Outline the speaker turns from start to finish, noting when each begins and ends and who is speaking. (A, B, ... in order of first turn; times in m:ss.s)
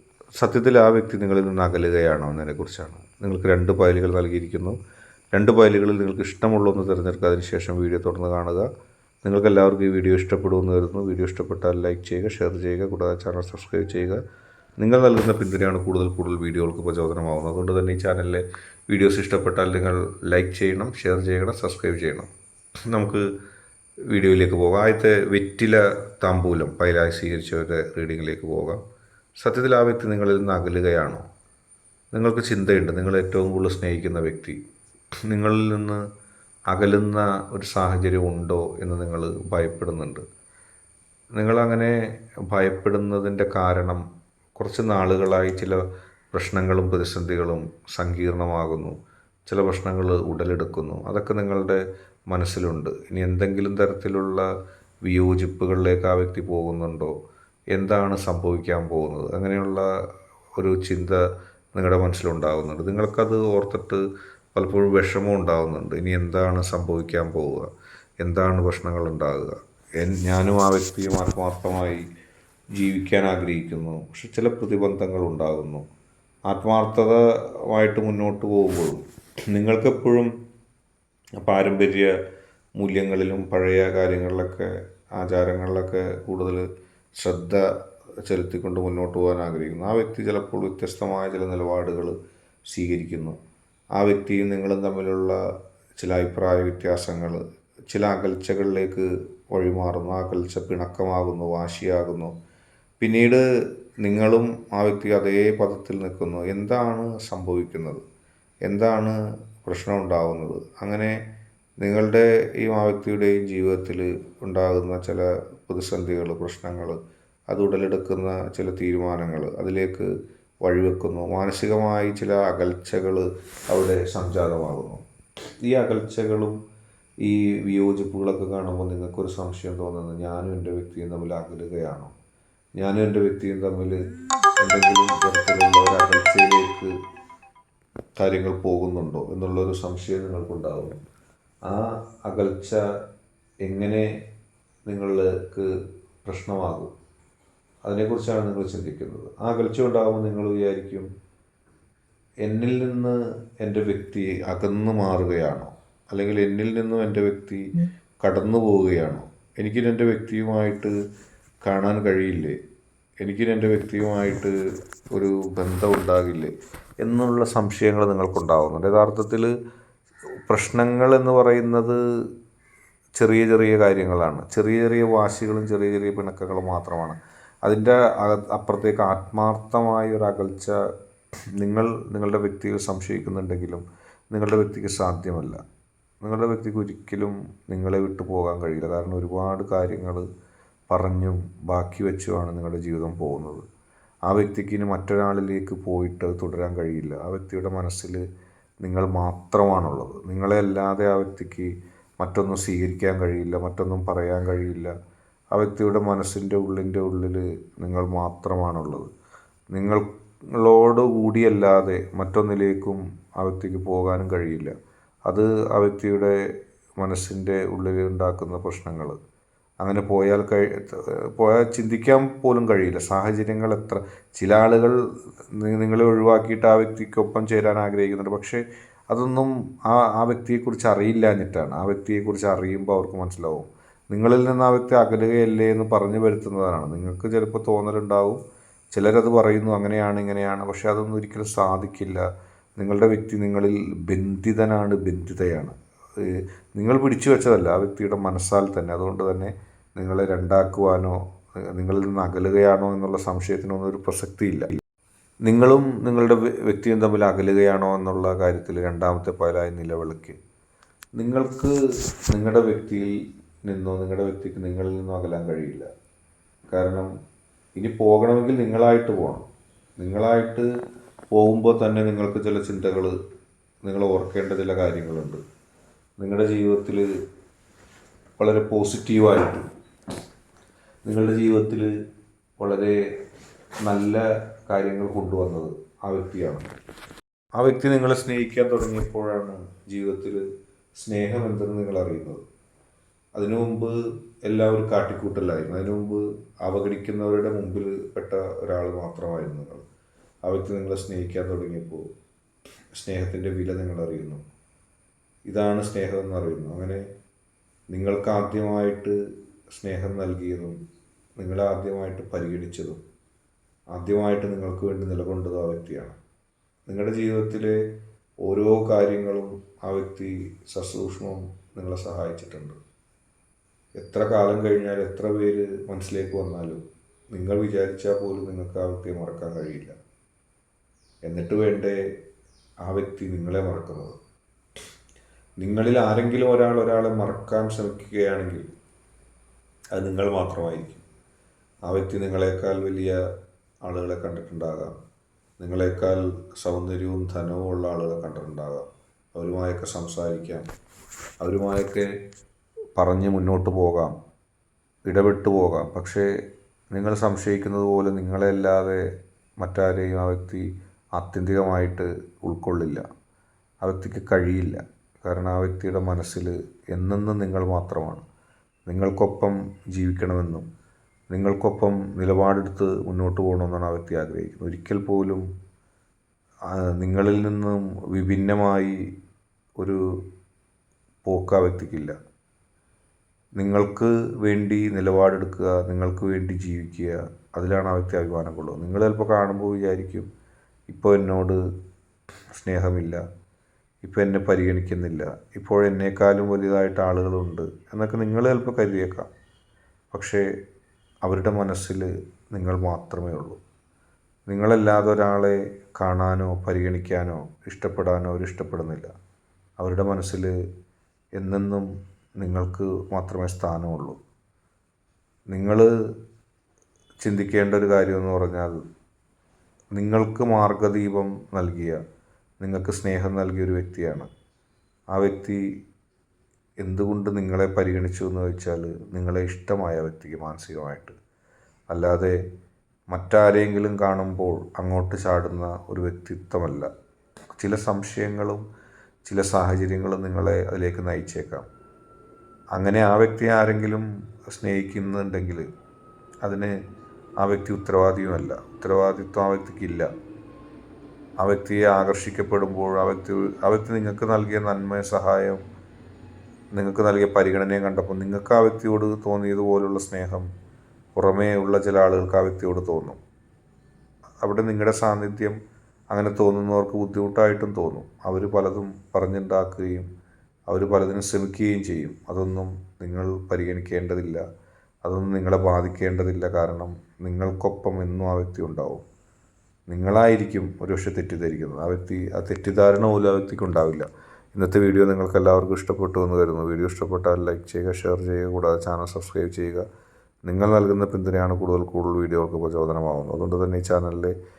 0:00.4-0:04.8 A
0:05.3-0:08.7 A
0:09.2-0:14.2 A
0:14.8-0:22.3 A
0:22.9-0:23.3 A
0:24.1-0:28.8 A
0:29.4-0:31.3 A
0:32.1-0:34.6 A
0:35.3-0:36.0 A
0:36.7-0:40.2 A
0:41.4-0:44.0 A
0:44.6-0:54.5 A
0:55.0-0:57.2 A
0:57.7-0:59.9 A
1:00.6-1:01.2 A
1:01.7-1:04.0 A
1:04.5-1:07.7 A
1:08.2-1:12.0 A
1:12.8-1:15.8 A
1:16.5-1:20.3 A
1:21.4-1:22.1 A
1:22.8-1:26.6 A
1:27.2-1:27.7 A
1:28.2-1:32.2 A
1:32.7-1:33.4 A
1:34.0-1:35.4 A
1:36.0-1:42.3 A
1:43.0-1:43.4 A
1:44.0-1:48.0 A
1:48.7-1:51.2 A
1:51.8-1:57.0 A
1:57.5-2:00.1 A
2:00.6-2:05.0 A
2:05.6-2:06.6 A
2:07.2-2:12.1 A
2:12.8-2:14.0 A
2:14.6-2:16.9 A
2:18.2-2:21.0 A
2:21.6-2:22.8 A
2:23.6-2:24.1 A
2:24.9-2:25.7 A
2:26.2-2:26.9 A
2:27.8-2:31.1 A
2:32.4-2:40.9 A
2:41.6-2:42.6 A
2:43.2-2:44.6 A
2:45.1-2:49.5 A
2:50.5-2:52.0 A
2:53.2-3:00.8 A
3:01.6-3:05.6 A
3:06.2-3:10.2 A
3:10.9-3:13.6 A
3:14.3-3:18.2 A
3:18.8-3:24.9 A
3:25.5-3:29.1 A
3:29.7-3:34.7 A
3:35.3-3:36.4 A
3:37.0-3:39.2 A
3:39.8-3:45.0 A
3:45.5-3:58.4 A
3:58.9-4:02.2 A
4:02.8-4:14.8 A
4:15.4-4:20.4 A
4:21.2-4:21.8 A
4:22.3-4:25.9 A
4:26.7-4:27.1 A
4:27.8-4:29.4 A
4:30.0-4:30.7 A
4:31.3-4:33.2 A
4:33.8-4:35.4 A
4:36.2-4:37.1 A
4:38.4-4:39.7 A
4:41.0-4:41.9 A
4:42.6-4:43.0 A
4:43.8-4:46.7 A
4:47.6-4:50.4 A
4:51.0-4:52.4 A
4:53.4-4:59.8 A
5:00.5-5:02.1 A
5:02.9-5:04.4 A
5:05.5-5:07.1 A
5:07.9-5:09.2 A
5:09.7-5:10.8 A
5:11.4-5:13.0 A
5:13.9-5:16.2 A
5:16.9-5:17.9 A
5:18.4-5:22.8 A
5:24.0-5:29.9 A
5:31.2-5:32.0 A
5:32.8-5:34.2 A
5:35.6-5:38.7 A
5:39.9-5:41.0 A
5:41.9-5:43.2 A
5:43.8-5:45.0 A
5:45.6-5:50.7 A
5:51.4-5:52.1 A
5:53.0-5:54.1 A
5:55.1-5:56.3 A
5:56.9-5:59.1 A
5:59.6-6:03.0 A
6:03.8-6:08.2 A
6:08.9-6:10.7 A
6:11.3-6:15.4 A
6:16.7-6:19.0 A
6:19.8-6:20.2 A
6:21.2-6:22.2 A
6:23.6-6:30.3 A
6:30.9-6:31.6 A
6:32.6-6:33.2 A
6:34.0-6:39.3 A
6:40.1-6:40.5 A
6:41.2-6:43.6 A
6:44.5-6:49.1 A
6:49.8-6:50.6 A
6:51.4-6:54.2 A
6:55.5-6:55.9 A
6:57.2-6:58.8 A
6:59.9-7:02.0 A
7:02.6-7:04.3 A
7:05.1-7:05.6 A
7:06.8-7:11.2 A
7:11.9-7:12.4 A
7:13.1-7:16.9 A
7:17.6-7:18.6 A
7:19.2-7:21.7 A
7:22.8-7:25.7 A
7:26.4-7:26.8 A
7:27.4-7:30.1 A
7:31.4-7:35.6 A
7:36.8-7:40.5 A
7:41.2-7:43.2 A
7:44.4-7:45.6 A
7:46.1-7:50.1 A
7:50.7-7:54.4 A
7:55.0-7:59.0 A
7:59.9-8:09.8 A
8:10.4-8:14.4 A